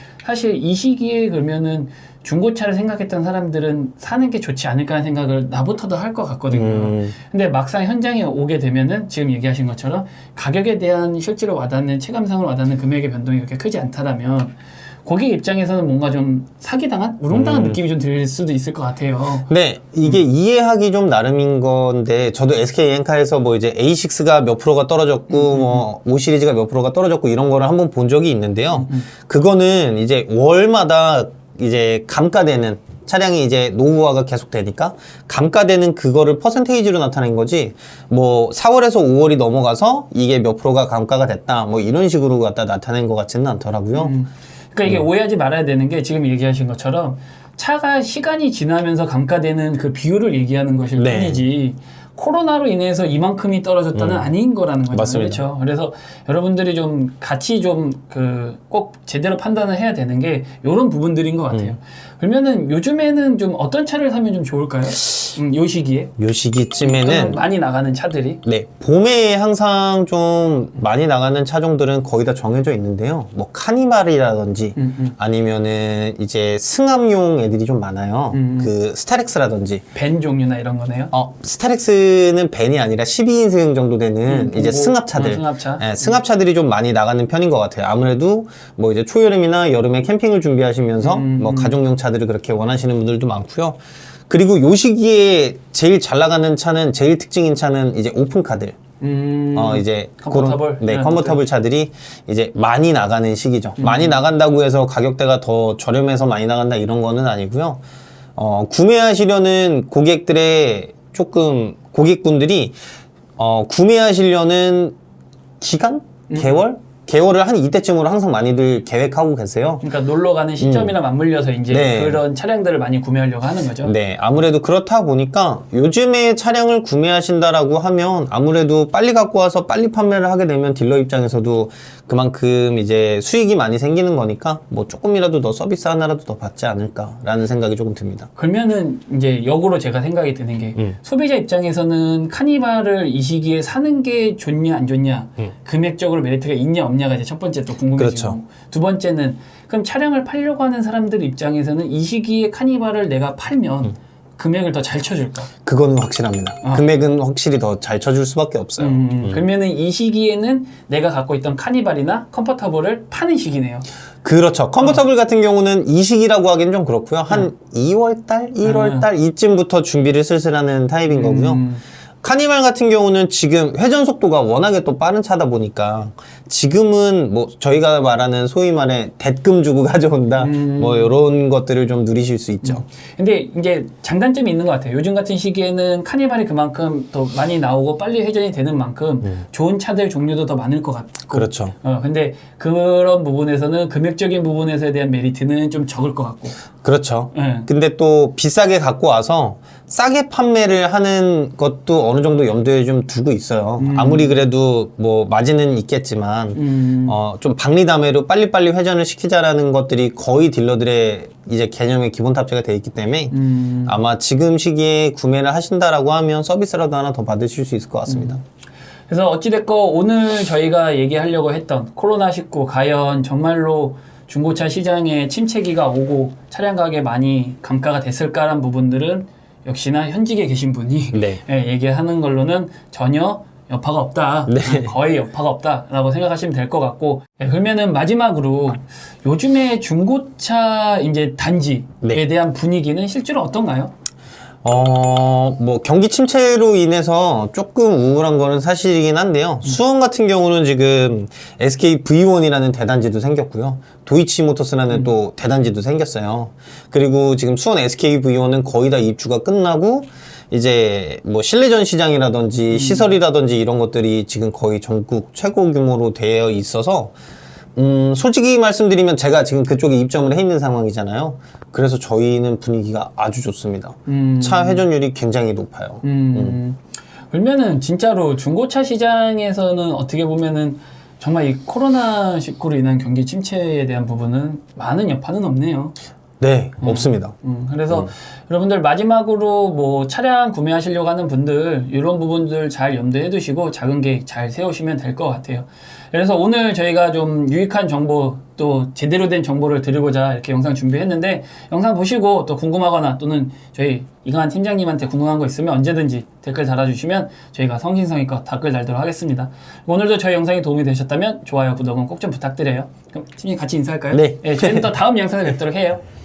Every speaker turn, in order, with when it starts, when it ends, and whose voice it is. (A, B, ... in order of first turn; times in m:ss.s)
0:00.2-0:19.5 A
0:06.5-0:07.1 B
0:17.3-0:17.8 B
0:19.5-0:44.2 B
0:25.3-0:25.8 A
0:28.7-0:29.1 A
0:44.0-1:06.1 A
0:51.0-0:51.4 B
0:54.0-0:54.3 B
0:54.9-0:55.4 B
1:06.2-1:07.4 B
1:06.8-1:08.4 A
1:08.4-1:19.8 B
1:14.8-1:15.2 A
1:18.3-1:18.7 A
1:19.9-1:21.1 A
1:21.1-1:38.8 B
1:24.3-1:26.2 A
1:31.0-1:31.8 A
1:39.0-1:41.4 A
1:39.6-1:47.8 B
1:43.8-1:44.2 A
1:48.4-1:52.8 B
1:53.4-1:55.0 B
1:55.6-1:59.8 B
1:56.3-1:56.6 A
1:59.8-2:03.9 A
2:00.6-2:00.9 B
2:01.7-2:02.2 B
2:03.8-2:18.3 B
2:18.4-2:35.5 A
2:28.0-2:28.4 B
2:35.7-2:39.4 B
2:38.8-2:43.9 A
2:44.2-2:51.7 B
2:48.6-2:49.1 A
2:51.1-2:51.8 A
2:52.2-3:02.8 B
3:00.4-3:01.1 A
3:02.6-3:16.6 A
3:11.3-3:11.7 B
3:16.8-3:33.4 B
3:17.3-3:17.7 A
3:23.8-3:24.4 A
3:26.6-3:27.2 A
3:33.3-3:34.0 A
3:33.9-3:38.4 B
3:38.1-3:38.4 A
3:39.1-4:03.9 A
3:51.1-3:51.4 B
3:54.5-3:54.9 B
4:04.6-4:27.1 B
4:22.7-4:23.1 A
4:27.8-4:36.6 B
4:34.1-4:34.8 A
4:36.0-4:36.8 A
4:37.3-4:46.0 A
4:46.4-4:47.3 B
4:46.8-5:16.0 A
5:14.1-5:14.9 B